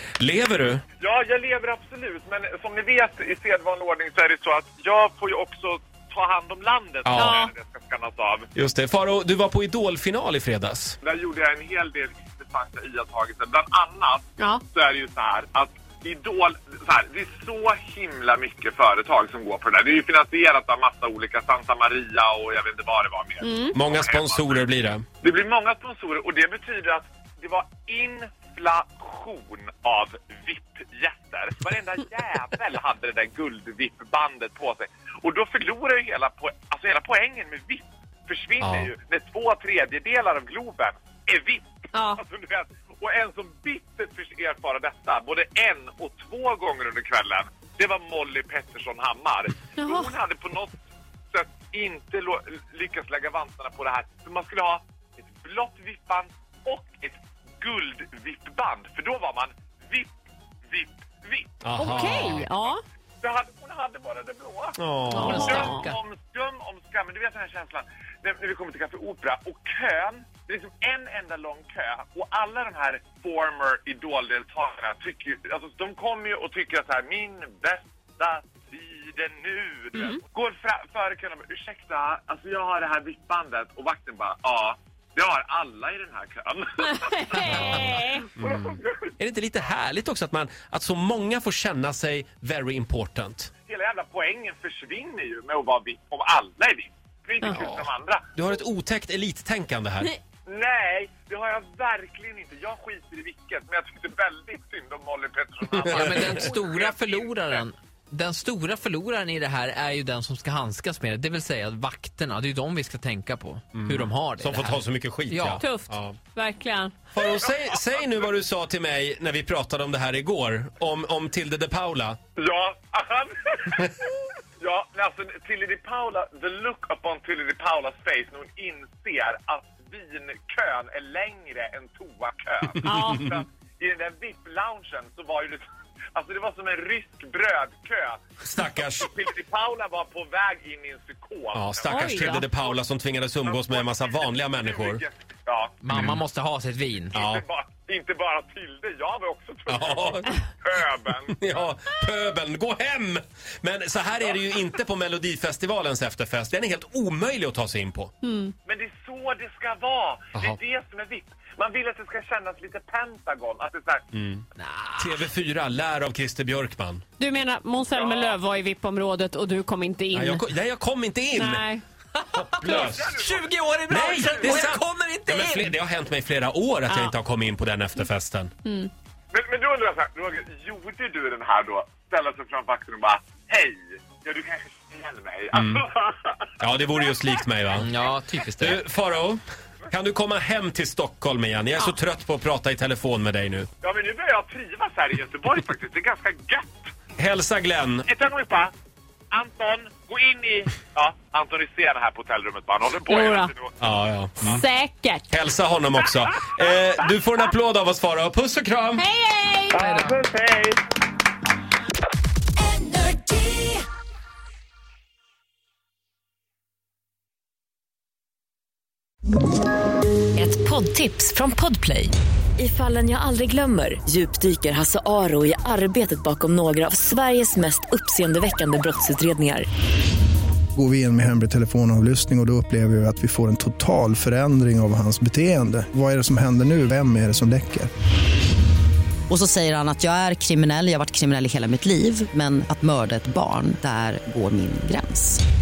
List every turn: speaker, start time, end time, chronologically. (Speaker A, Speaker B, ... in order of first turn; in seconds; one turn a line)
Speaker A: 0.2-0.8
Speaker B: 1.0-8.5
Speaker A: 7.0-7.4
Speaker C: 7.2-7.5
Speaker A: 8.6-11.0
Speaker B: 11.0-24.6
Speaker C: 23.4-23.8
Speaker A: 23.7-25.1
Speaker B: 25.2-50.8
Speaker A: 38.6-38.9
Speaker C: 41.9-42.2
Speaker C: 49.8-50.1
Speaker B: 51.3-60.1
Speaker B: 60.7-62.4
Speaker A: 61.6-62.5
Speaker C: 61.8-62.8
Speaker B: 63.2-87.8
Speaker A: 64.8-65.8
Speaker C: 65.1-65.9
Speaker D: 65.1-66.0
Speaker C: 80.0-80.2
Speaker C: 86.8-88.3
Speaker A: 88.4-93.5
Speaker B: 88.4-88.8
Speaker B: 93.7-98.3
Speaker A: 97.5-97.8
Speaker A: 98.4-100.1
Speaker B: 100.5-107.6
Speaker A: 105.8-106.3
Speaker D: 105.9-115.6
Speaker A: 113.8-116.2
Speaker C: 115.6-117.0
Speaker A: 117.1-122.2
Speaker B: 117.2-117.8
Speaker B: 122.4-124.1
Speaker B: 124.6-135.6
Speaker C: 132.8-133.4
Speaker A: 132.8-133.2
Speaker B: 136.2-142.7
Speaker A: 138.4-139.1
Speaker A: 141.5-145.0
Speaker C: 141.9-142.5
Speaker B: 143.5-145.8
Speaker D: 145.8-147.1
Speaker A: 145.9-146.2
Speaker B: 147.1-151.6
Speaker A: 147.1-147.4
Speaker A: 149.7-150.3
Speaker A: 151.4-158.1
Speaker C: 158.2-158.5
Speaker B: 158.7-164.0
Speaker A: 164.1-164.4
Speaker D: 164.6-165.2
Speaker A: 165.0-167.1
Speaker C: 167.2-170.4
Speaker B: 168.0-168.4
Speaker A: 170.1-171.7
Speaker C: 171.3-171.8
Speaker D: 172.2-175.7
Speaker A: 172.4-173.1
Speaker B: 172.6-174.8
Speaker A: 173.9-178.5
Speaker C: 176.9-177.1
Speaker C: 178.7-178.9
Speaker B: 179.3-186.5
Speaker A: 185.5-185.8
Speaker A: 186.6-187.9
Speaker D: 187.8-188.8
Speaker A: 188.6-193.7
Speaker B: 193.8-196.9
Speaker A: 197.2-198.1
Speaker B: 198.1-198.7
Speaker B: 199.3-203.7
Speaker C: 203.1-203.5
Speaker A: 203.8-204.6
Speaker C: 204.4-205.3
Speaker A: 205.3-209.1
Speaker C: 209.0-209.8
Speaker B: 209.7-210.8
Speaker D: 209.8-210.2
Speaker E: 212.6-213.8
Speaker E: 220.3-229.7
Speaker F: 230.8-237.9
Speaker G: 239.3-245.4